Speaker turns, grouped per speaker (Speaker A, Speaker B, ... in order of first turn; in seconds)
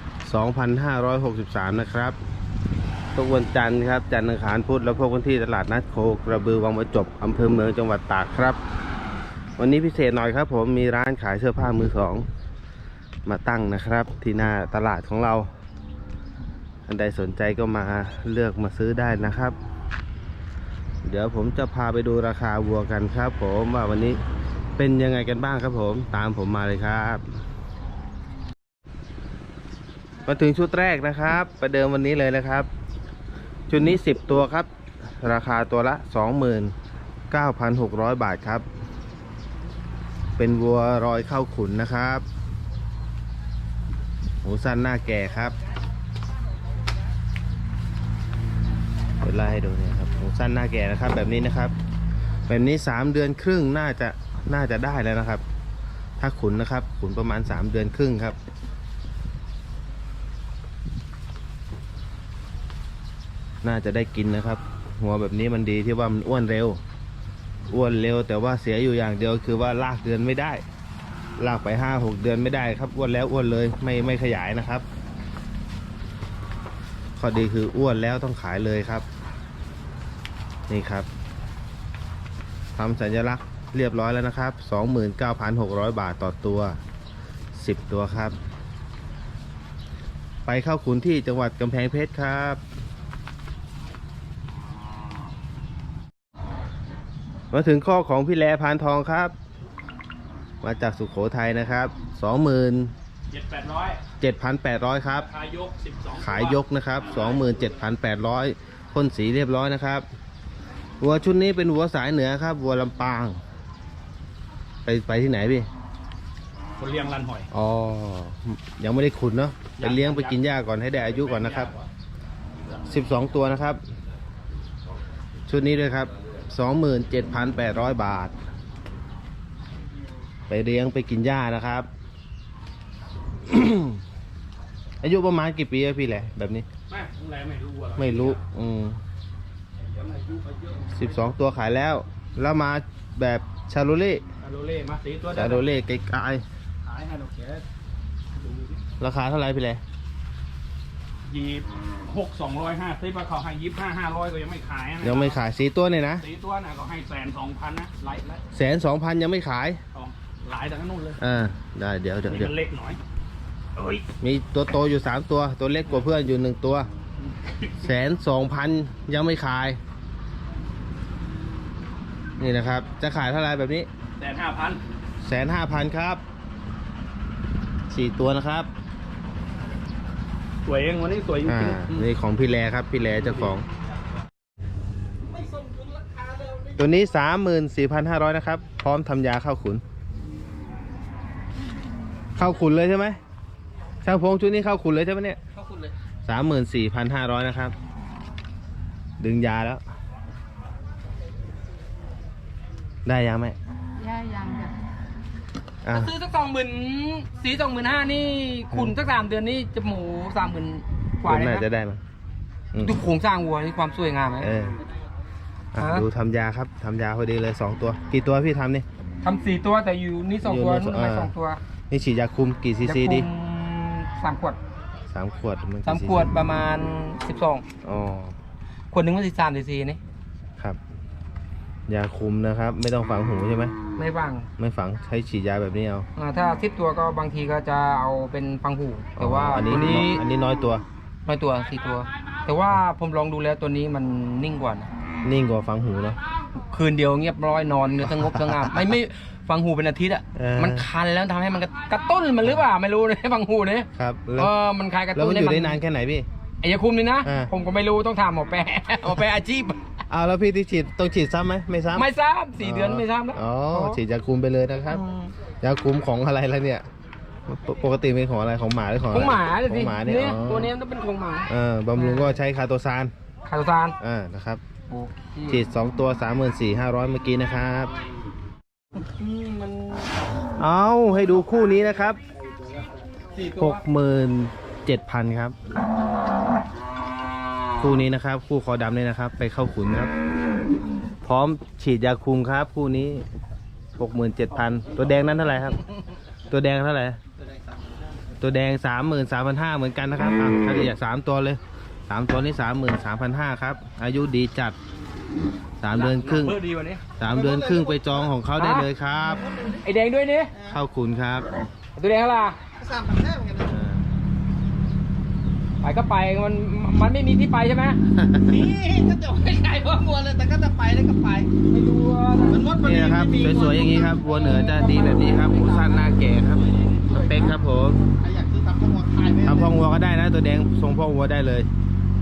Speaker A: 0.2-2.1, 3.1-8.6, 9.6-12.2, 13.2-15.5, 16.9-19.6, 21.0-24.2, 24.8-27.2, 30.2-32.7, 33.7-34.7, 35.2-36.7, 37.3-38.6, 40.4-42.2, 44.4-45.5, 49.2-51.7, 52.5-55.4, 56.2-58.4, 63.6-66.8, 67.7-70.6, 71.4-74.8, 77.2-79.0, 80.7-81.1, 82.7-86.8, 87.5-88.3, 90.5-92.6, 97.5-99.3, 100.6-102.9, 104.2-105.3, 106.2-110.0, 111.0-113.4, 114.8-115.7, 117.5-121.7, 122.9-123.8, 125.5-128.3, 130.5-131.9, 133.4-134.0, 135.0-136.7, 138.0-139.0, 140.9-144.2, 145.3-146.4, 149.0-149.8, 155.0-156.2, 158.5-159.8, 161.2-162.5, 164.2-166.9, 167.8-169.8, 172.4-173.9, 175.2-176.2, 177.9-178.7, 181.4-183.6, 186.8-189.8, 192.3-193.2, 194.0-195.4, 196.2-197.7, 199.2-199.8, 203.0-203.6, 205.8-206.1, 211.2-212.0, 212.7-213.0, 214.4-214.8, 215.7-218.8, 220.4-221.3, 221.9-223.3, 225.1-226.3, 227.8-228.3, 231.9-233.7, 234.6-236.1, 239.2-240.8, 245.2-246.2, 248.0-248.7, 250.3-250.8, 253.9-254.5, 255.1-256.3, 257.2-257.5, 260.1-262.1, 262.6-265.0, 265.6-266.9, 267.5-270.7, 271.5-273.1, 274.0-274.6, 275.5-277.9, 280.6-282.2, 283.5-285.5, 287.8-290.1, 291.2-293.2, 294.0-295.8, 296.5-297.2, 298.4-304.8, 305.8-306.6, 307.2-309.4, 310.6-311.5, 313.7-314.0, 318.1-318.6, 322.8-328.0, 329.4-331.7
Speaker B: 103.3-104.0, 105.3-107.7, 116.8-117.5, 119.8-120.4, 121.0-121.9, 136.9-138.4, 139.8-141.3, 144.4-145.6, 146.8-147.6, 148.3-148.8, 151.2-155.4, 156.2-158.4, 159.9-161.2, 162.3-163.0, 163.8-164.0, 167.2-167.8, 174.2-174.8, 180.6-182.1, 305.9-307.0
Speaker C: 204.0-204.7, 205.9-211.7, 212.8-214.5, 215.8-216.1, 219.2-221.6, 222.8-224.6, 225.8-227.6, 228.9-230.0, 234.0-234.5, 236.2-240.2, 241.2-244.9, 246.7-255.8, 256.6-259.9, 261.9-264.0, 264.9-265.3, 269.1-272.3, 273.5-273.9, 274.9-275.6, 279.0-280.2, 283.4-283.8, 308.6-308.9, 309.8-310.5, 312.0-312.6, 315.8-318.0, 321.7-322.7
Speaker D: 307.3-308.0, 312.8-313.7, 318.5-321.5, 322.5-324.1